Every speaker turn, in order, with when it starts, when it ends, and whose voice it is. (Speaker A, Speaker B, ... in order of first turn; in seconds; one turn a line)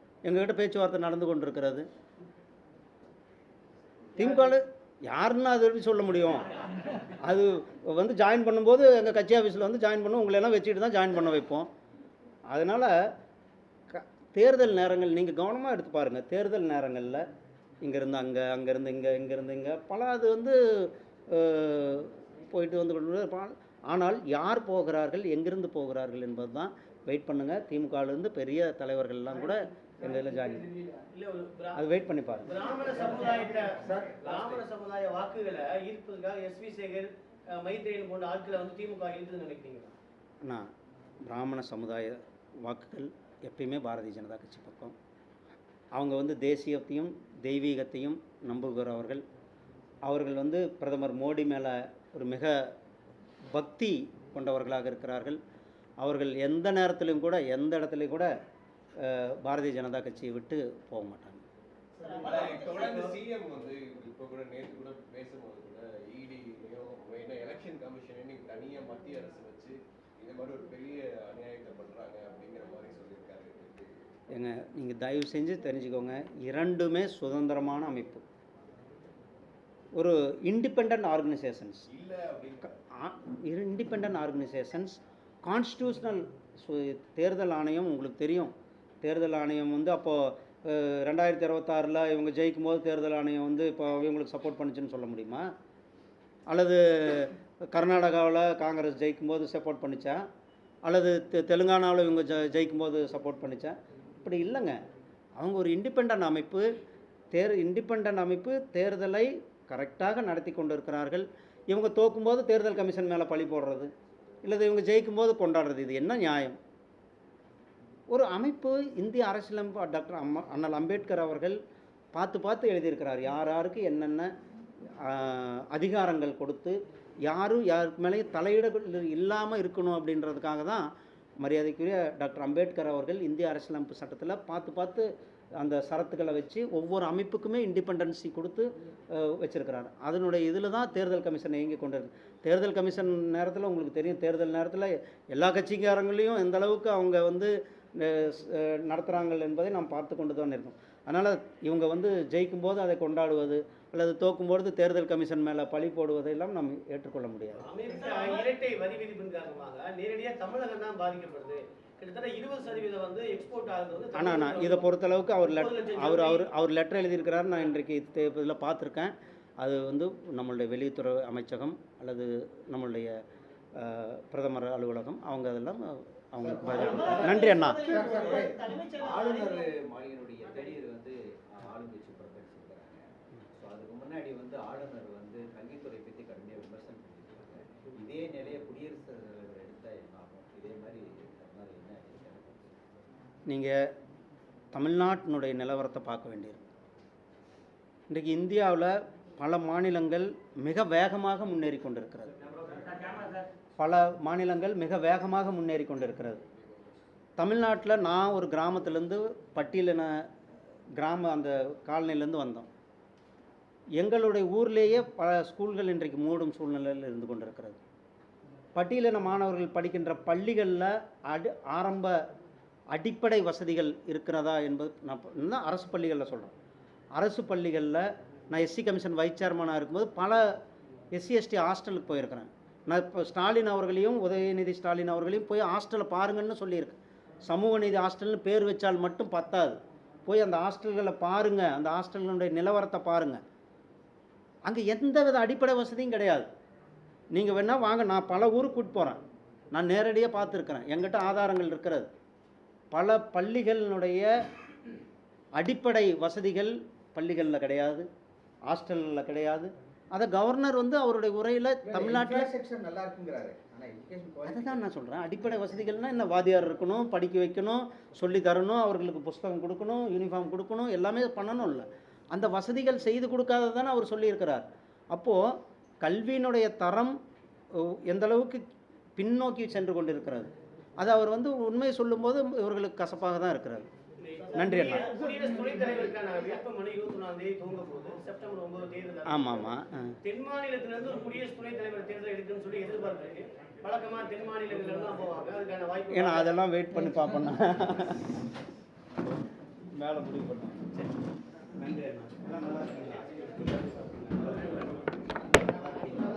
Speaker A: 0.2-1.9
Speaker A: 4.2-6.5
Speaker A: 7.0-11.7
Speaker A: 12.5-13.1
Speaker A: 13.9-17.2
Speaker A: 17.8-30.7
Speaker B: 31.0-31.8
Speaker A: 31.7-32.5
Speaker B: 32.4-39.9
Speaker C: 33.8-34.6
Speaker A: 40.4-40.7
Speaker A: 41.2-44.9
Speaker A: 45.9-49.2
Speaker A: 50.0-52.7
Speaker A: 53.5-55.4
Speaker A: 56.0-58.3
Speaker A: 59.0-61.4
Speaker D: 62.1-74.1
Speaker A: 74.3-78.2
Speaker A: 80.0-81.8
Speaker D: 81.9-82.7
Speaker A: 82.9-95.5
Speaker A: 96.5-100.2
Speaker A: 100.8-104.8
Speaker A: 105.4-106.7
Speaker A: 107.3-113.9
Speaker A: 114.4-116.6
Speaker A: 118.1-121.6
Speaker A: 122.1-124.3
Speaker A: 125.0-157.6
Speaker B: 157.6-164.9
Speaker A: 164.1-173.2
Speaker B: 165.5-166.5
Speaker A: 173.8-178.1
Speaker B: 176.7-178.8
Speaker C: 176.8-192.8
Speaker E: 177.9-178.5
Speaker A: 193.4-193.9
Speaker A: 194.7-196.6
Speaker A: 198.1-202.3
Speaker A: 203.8-206.4
Speaker A: 207.4-210.2
Speaker A: 210.9-212.7
Speaker A: 214.0-217.8
Speaker A: 218.7-222.2
Speaker A: 222.9-226.5
Speaker A: 227.2-230.5
Speaker A: 231.1-243.4
Speaker A: 244.6-246.5
Speaker A: 247.3-249.2
Speaker A: 249.7-252.1
Speaker A: 252.9-254.3
Speaker A: 255.6-258.1
Speaker A: 258.7-262.5
Speaker E: 261.8-264.6
Speaker C: 263.0-263.7
Speaker A: 264.4-275.4
Speaker A: 276.0-277.1
Speaker A: 277.7-278.6
Speaker A: 279.2-283.9
Speaker B: 284.2-296.6
Speaker A: 284.5-285.1
Speaker A: 289.2-290.2
Speaker A: 296.1-298.3
Speaker A: 299.9-300.8
Speaker A: 301.8-304.7